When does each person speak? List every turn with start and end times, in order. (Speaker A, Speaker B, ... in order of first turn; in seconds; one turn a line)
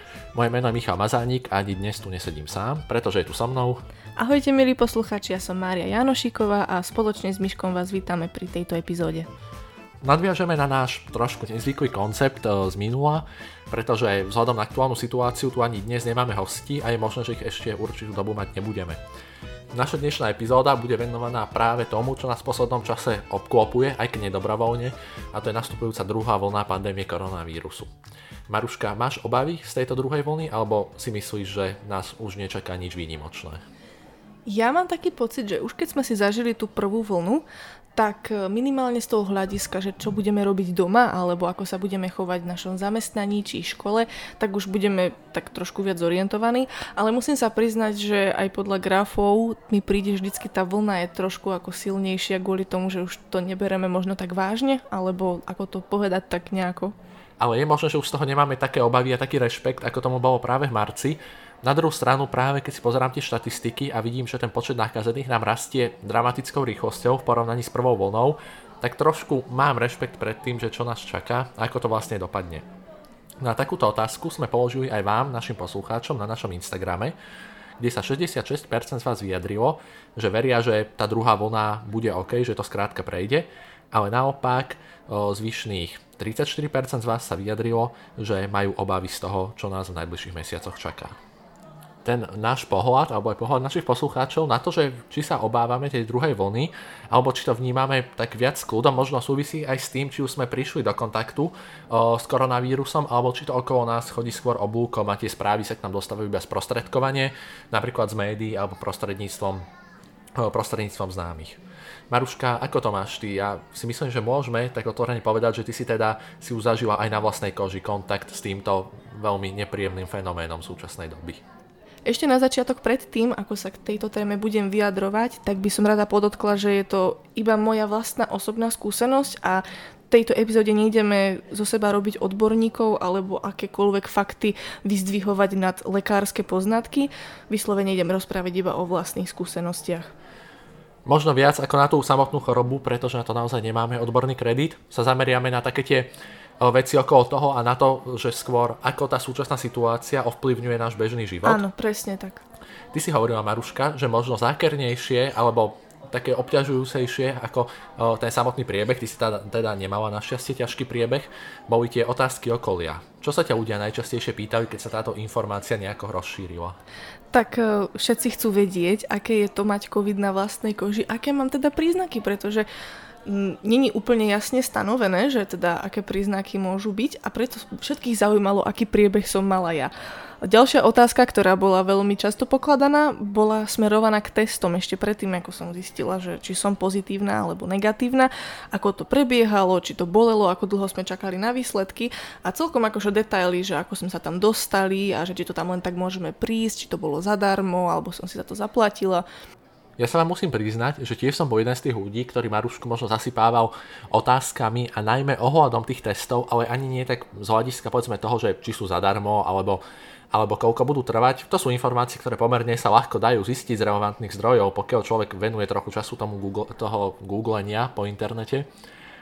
Speaker A: 0.3-3.8
Speaker B: 4.2-9.3
Speaker A: 10.0-19.0
Speaker A: 19.7-27.9
Speaker A: 28.5-33.6
Speaker B: 34.5-37.5
Speaker B: 38.0-57.0
Speaker A: 57.4-72.7
Speaker A: 73.4-77.2
Speaker A: 77.8-91.2
Speaker A: 92.0-109.7
Speaker A: 110.4-121.4
Speaker B: 122.0-140.1
Speaker A: 141.1-146.1
Speaker A: 146.6-151.6
Speaker B: 151.4-152.4
Speaker A: 152.9-166.8
Speaker B: 167.3-172.7
Speaker B: 173.2-199.2
Speaker A: 200.0-218.7